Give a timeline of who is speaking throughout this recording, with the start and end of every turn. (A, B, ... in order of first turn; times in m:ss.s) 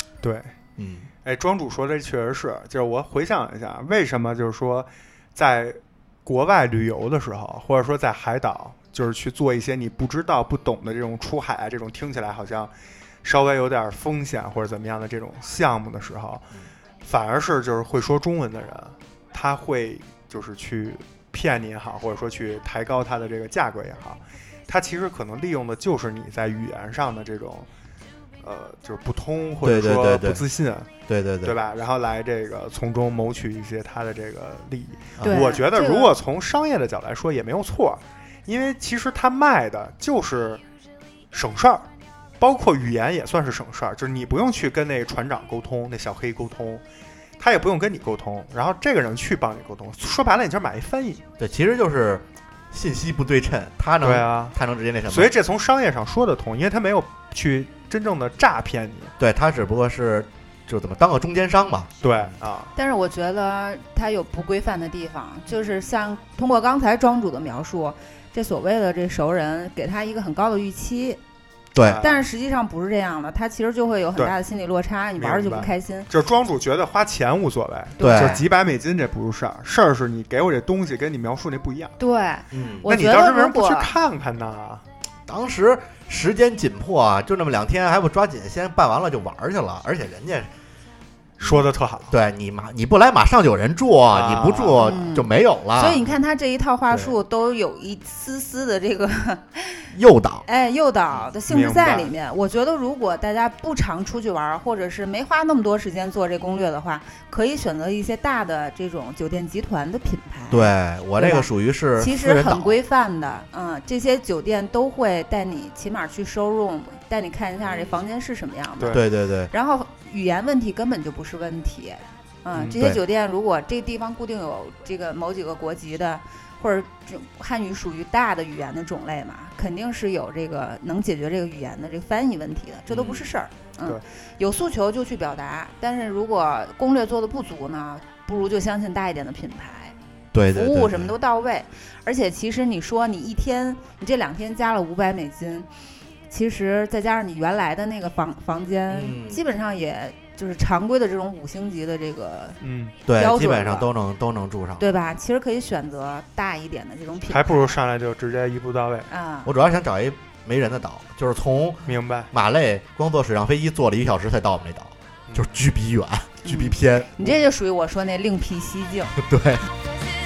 0:00.2-0:00.5 A
0:00.8-0:01.1 B
0:01.2-0:12.7 A
0:13.2-0:16.5 A
0:17.0-0:27.7 A
0:28.4-0:30.9 A
0:29.6-0:30.4 B
0:31.1-0:31.6 B
0:31.4-0:40.6 A
0:35.2-0:35.5 B
0:35.2-0:36.1 C
0:41.3-0:41.9 A
0:42.4-0:46.8 A
0:47.4-0:51.2 A
0:51.4-0:55.3 B
0:54.0-0:54.5 A
0:55.1-0:59.1 A
0:59.2-1:01.9 B
1:02.0-1:02.7 A
1:02.8-1:11.2 C
1:11.7-1:12.0 B
1:11.8-1:12.2 A
1:12.0-1:16.1 C
1:15.2-1:22.0 A
1:18.0-1:18.4 C
1:18.0-1:18.4 B
1:22.0-1:23.9 C
1:22.5-1:22.9 B
1:22.9-1:24.8 A
1:25.3-1:30.5 B
1:31.4-1:32.1 A
1:31.4-1:36.1 B
1:34.1-1:35.0 A
1:34.8-1:39.9 C
1:39.9-1:40.4 B
1:40.4-2:19.9 C
1:41.5-1:42.1 A
1:50.5-1:52.8 B
1:57.6-1:58.0 B
1:58.8-1:59.0 A
1:58.9-1:59.5 B
2:02.6-2:03.0 B
2:12.9-2:13.3 B
2:20.3-2:21.1 B
2:20.5-2:25.7 C
2:26.3-2:33.9 C
2:28.9-2:29.4 B
2:32.6-2:32.9 A
2:33.1-2:34.8 B
2:34.8-2:37.7 C
2:37.3-2:39.1 A
2:39.1-2:39.5 C
2:39.4-2:47.3 B
2:41.8-2:42.3 A
2:45.3-2:45.5 A
2:46.4-2:49.2 C
2:49.2-2:49.6 B